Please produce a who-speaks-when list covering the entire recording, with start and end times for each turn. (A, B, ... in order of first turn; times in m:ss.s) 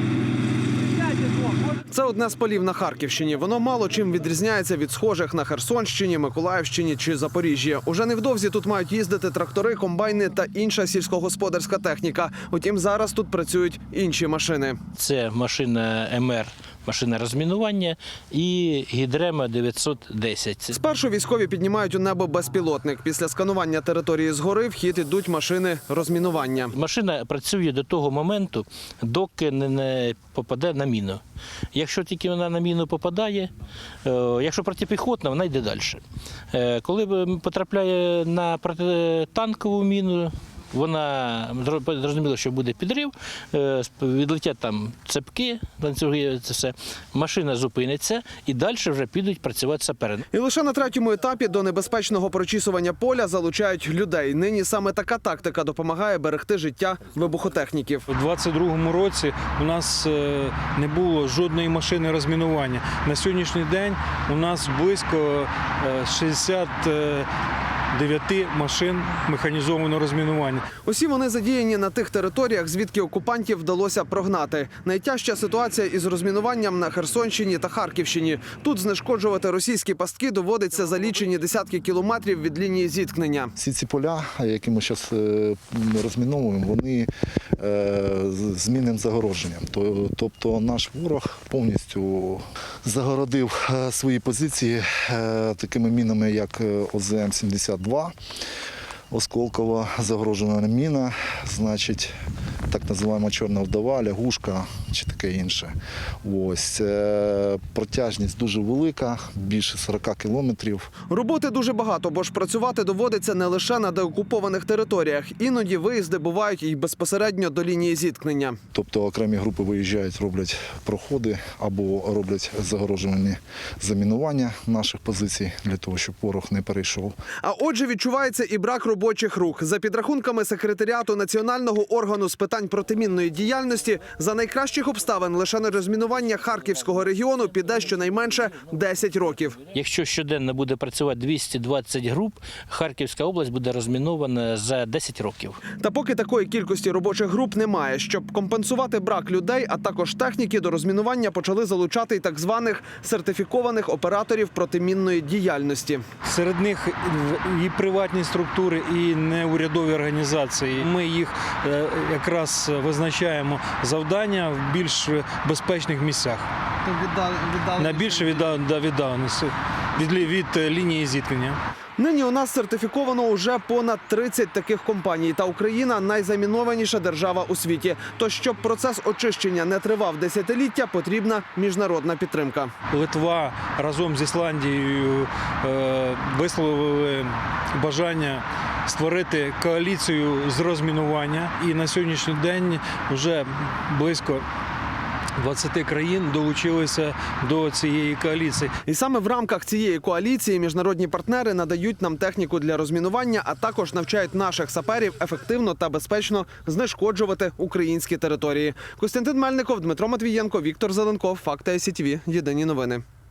0:01.9-0:14.8 A
0:15.0-0:20.8 B
0:20.7-0:26.7 A
0:26.7-0:31.2 B
0:31.7-0:33.5 B
0:34.0-0:50.2 B
0:50.3-0:58.0 A
0:58.1-1:07.3 C
1:07.9-1:10.7 C
1:10.8-1:23.5 A
1:23.6-1:38.1 D
1:39.1-1:42.1 D
1:42.7-1:50.9 D
1:51.1-1:58.6 A
1:58.7-2:07.1 D
2:07.4-2:19.6 A
2:19.7-2:25.6 B
2:25.8-2:36.0 A
2:36.2-2:46.5 C
2:46.8-2:48.5 A
2:47.8-2:51.6 C
2:52.0-3:02.7 A
3:02.9-3:14.4 C
3:15.4-3:18.8 C
3:18.8-3:33.0 A